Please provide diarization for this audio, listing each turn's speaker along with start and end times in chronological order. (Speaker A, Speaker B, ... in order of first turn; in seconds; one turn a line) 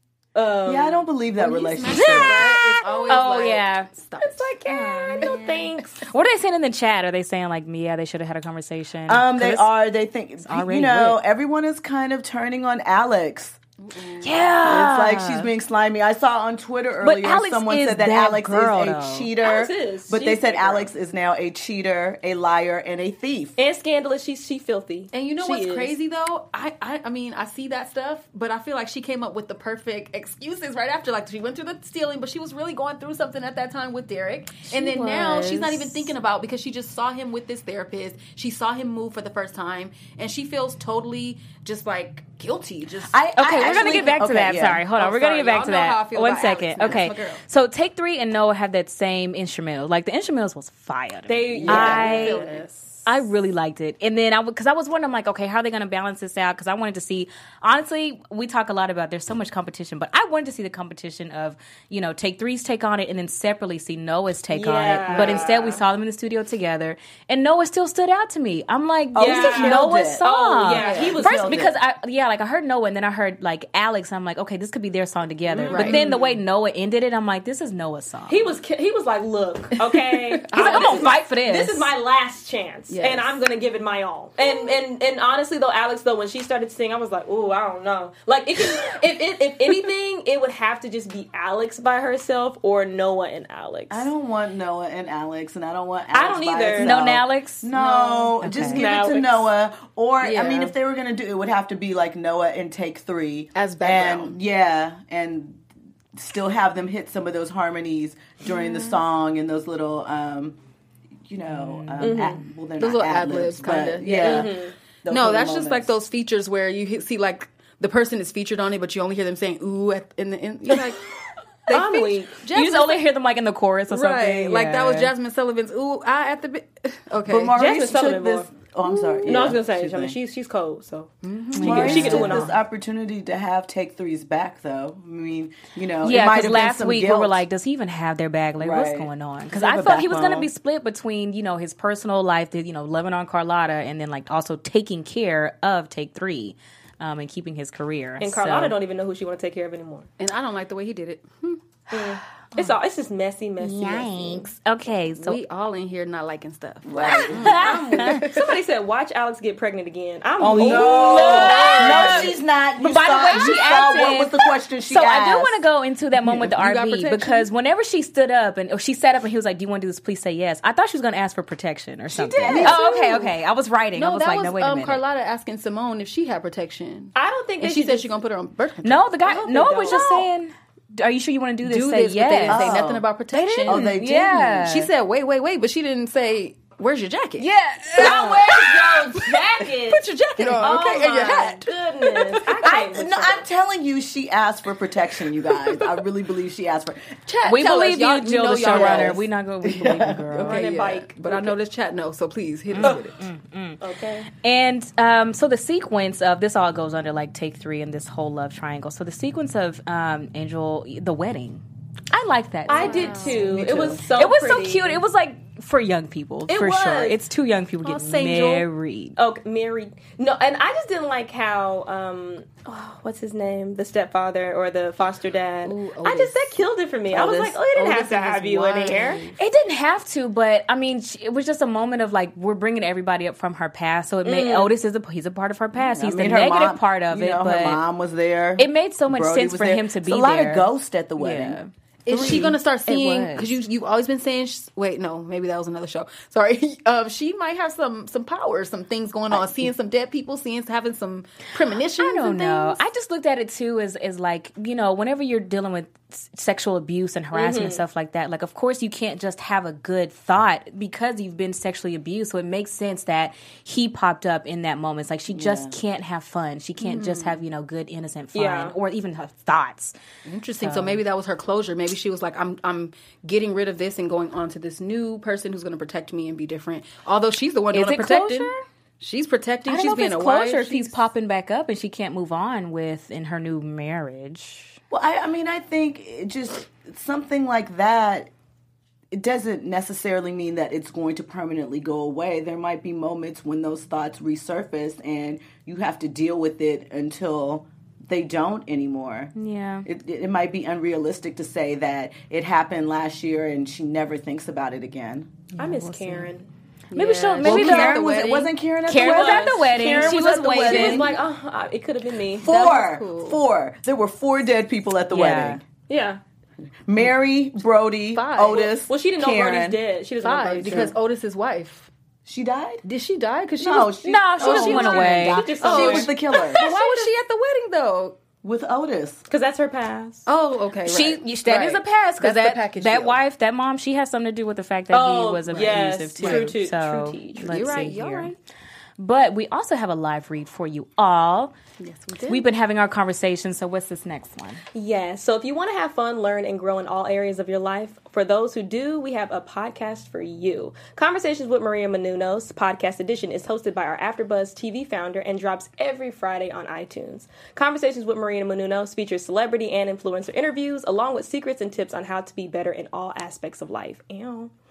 Speaker A: 0.3-1.1
Speaker B: 0.7-2.4
Speaker C: 1.4-4.5
Speaker D: 1.9-3.9
Speaker A: 4.2-6.0
Speaker D: 4.7-9.7
Speaker B: 9.1-13.6
Speaker D: 10.4-11.2
Speaker C: 13.8-14.8
Speaker D: 14.2-15.5
Speaker B: 14.6-23.6
Speaker D: 17.0-19.3
Speaker A: 19.4-20.9
Speaker A: 23.6-25.9
Speaker C: 25.1-44.3
Speaker D: 34.7-36.1
Speaker B: 43.1-44.8
Speaker D: 43.4-52.5
Speaker C: 44.9-47.4
Speaker A: 51.3-52.8
Speaker C: 51.6-52.7
Speaker B: 51.7-52.0
Speaker D: 53.1-78.5
Speaker A: 64.5-65.8
Speaker C: 65.1-65.4
Speaker B: 69.1-70.2
Speaker A: 69.2-71.5
Speaker C: 70.8-71.2
Speaker B: 70.8-71.8
Speaker A: 75.5-76.0
Speaker C: 75.7-76.4
Speaker A: 78.3-94.1
Speaker C: 80.1-81.1
Speaker D: 80.5-81.9
Speaker C: 82.9-83.4
Speaker B: 93.9-105.6
Speaker A: 96.1-97.0
Speaker D: 96.8-97.7
Speaker A: 97.8-99.5
Speaker D: 98.4-98.8
Speaker C: 100.2-100.7
Speaker C: 103.5-104.4
Speaker B: 106.2-110.6
Speaker B: 111.3-114.5
Speaker D: 111.5-112.3
Speaker A: 112.0-112.4
Speaker C: 112.8-121.0
Speaker A: 114.2-114.7
Speaker B: 115.0-115.9
Speaker C: 121.7-123.1
Speaker A: 121.7-122.4
Speaker D: 122.5-125.1
Speaker C: 123.9-127.5
Speaker B: 127.3-130.2
Speaker A: 127.5-128.5
Speaker A: 129.2-132.6
Speaker C: 131.2-132.5
Speaker D: 131.6-132.3
Speaker B: 131.6-137.4
Speaker D: 136.0-148.8
Speaker B: 138.6-140.5
Speaker A: 148.2-150.1
Speaker C: 150.2-151.6
Speaker A: 151.9-154.5
Speaker D: 153.6-155.4
Speaker C: 155.2-158.5
Speaker B: 156.9-157.4
Speaker D: 157.0-158.3
Speaker A: 157.1-162.3
Speaker B: 160.4-165.6
Speaker D: 160.6-175.0
Speaker C: 166.2-167.5
Speaker A: 172.1-173.3
Speaker C: 172.4-172.8
Speaker B: 172.4-172.8
Speaker C: 173.9-179.1
Speaker A: 177.2-178.1
Speaker D: 178.8-182.8
Speaker A: 179.2-180.3
Speaker C: 181.7-183.9
Speaker B: 182.5-183.1
Speaker D: 183.3-184.9
Speaker B: 183.7-184.6
Speaker C: 184.6-192.6
Speaker D: 187.4-188.5
Speaker A: 188.0-193.5
Speaker B: 190.4-191.4
Speaker B: 192.6-197.2
Speaker C: 195.6-196.0
Speaker C: 197.3-199.3
Speaker D: 197.5-200.6
Speaker B: 198.6-200.3
Speaker C: 200.3-203.2
Speaker A: 200.4-201.6
Speaker D: 202.7-203.8
Speaker A: 203.8-204.3
Speaker D: 204.4-219.2
Speaker C: 212.7-214.0
Speaker A: 212.7-215.0
Speaker A: 216.5-217.2
Speaker C: 217.8-218.7
Speaker A: 219.2-229.2
Speaker C: 225.6-226.6
Speaker B: 227.1-227.6
Speaker C: 227.7-229.4
Speaker D: 229.4-237.8
Speaker A: 234.2-234.7
Speaker B: 236.0-241.6
Speaker D: 238.6-243.5
Speaker C: 242.1-252.8
Speaker B: 242.1-242.6
Speaker B: 249.3-249.7
Speaker D: 252.0-270.0
Speaker A: 257.3-257.8
Speaker B: 265.3-265.8
Speaker C: 266.8-267.4
Speaker A: 268.3-268.8
Speaker C: 270.3-281.0
Speaker D: 270.6-271.0
Speaker D: 277.7-278.6
Speaker D: 279.7-284.8
Speaker B: 284.9-288.3
Speaker B: 289.1-299.3
Speaker D: 299.4-299.9
Speaker B: 299.9-305.3
Speaker D: 305.5-306.3
Speaker A: 305.6-306.5
Speaker C: 306.9-308.5
Speaker D: 306.9-308.3
Speaker B: 307.4-311.2
Speaker D: 308.9-311.1
Speaker A: 308.9-312.6
Speaker B: 312.4-315.6
Speaker C: 312.4-313.4
Speaker D: 315.1-315.6
Speaker A: 315.9-316.2
Speaker B: 316.9-319.8
Speaker C: 318.1-318.7
Speaker A: 318.5-320.9
Speaker C: 320.2-321.9
Speaker B: 322.3-322.8
Speaker C: 322.8-328.2
Speaker B: 323.6-326.6
Speaker D: 324.0-325.5
Speaker A: 324.4-327.1
Speaker B: 328.4-329.2
Speaker A: 329.3-330.3
Speaker C: 330.3-333.2
Speaker D: 330.9-338.3
Speaker A: 334.9-337.8
Speaker C: 335.5-336.6
Speaker C: 337.4-338.4
Speaker D: 339.0-341.6
Speaker C: 341.8-342.5
Speaker D: 342.3-344.6
Speaker A: 344.7-364.5